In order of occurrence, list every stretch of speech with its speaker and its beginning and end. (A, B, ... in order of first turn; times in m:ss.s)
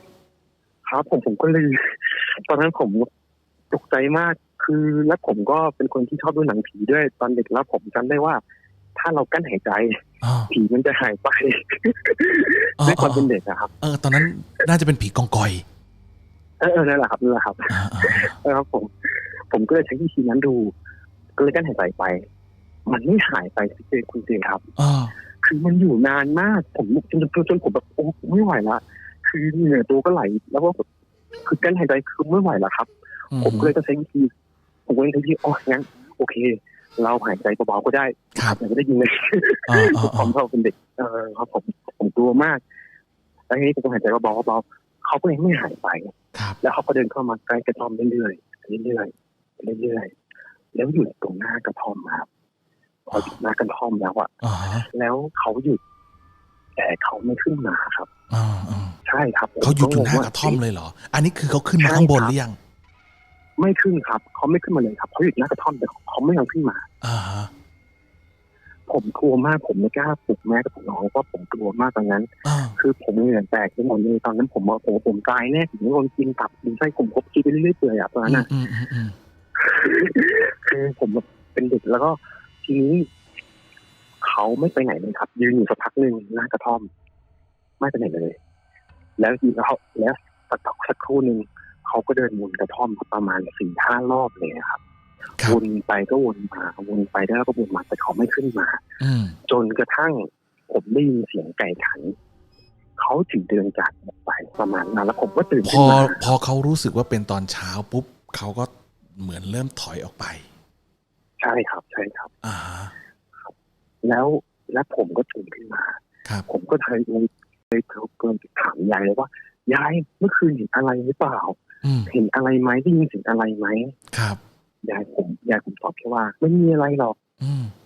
0:00.8-0:03.1 A
0:03.7-0:08.4 A
0:09.0-0:13.7 A
0:10.2-0:10.5 B
0:12.8-0:13.3 B
0:13.8-0:15.6 B
0:16.6-0:20.7 A
0:17.7-0:18.3 B
0:21.4-0:22.2 A
0:22.9-0:24.7 A
0:24.8-0:25.1 B
0:25.4-0:30.8 A
0:31.4-0:34.3 A
0:33.3-0:33.7 B
0:34.9-0:42.6 A
0:39.7-0:40.3 B
0:43.5-0:50.1 A
0:50.7-0:52.3 A
0:53.1-0:54.3 A
0:54.4-0:54.9 B
0:54.9-0:55.8 A
0:56.8-0:58.1 A
0:58.3-0:59.0 B
0:59.0-1:00.6 A
0:59.6-1:02.6 B
1:01.8-1:02.4 A
1:03.6-1:06.8 A
1:07.0-1:07.5 B
1:08.9-1:18.5 A
1:12.4-1:12.8 B
1:18.3-1:19.2 B
1:19.6-1:23.1 A
1:24.2-1:26.9 A
1:27.8-1:28.4 A
1:29.2-1:34.8 A
1:35.4-1:38.8 A
1:39.0-1:39.4 B
1:39.4-1:42.1 A
1:43.0-1:46.2 A
1:45.6-1:50.4 B
1:51.4-1:52.3 A
1:52.4-1:52.9 B
1:54.0-2:04.0 A
2:01.8-2:02.1 B
2:04.1-2:04.4 B
2:04.8-2:07.2 A
2:07.4-2:07.7 B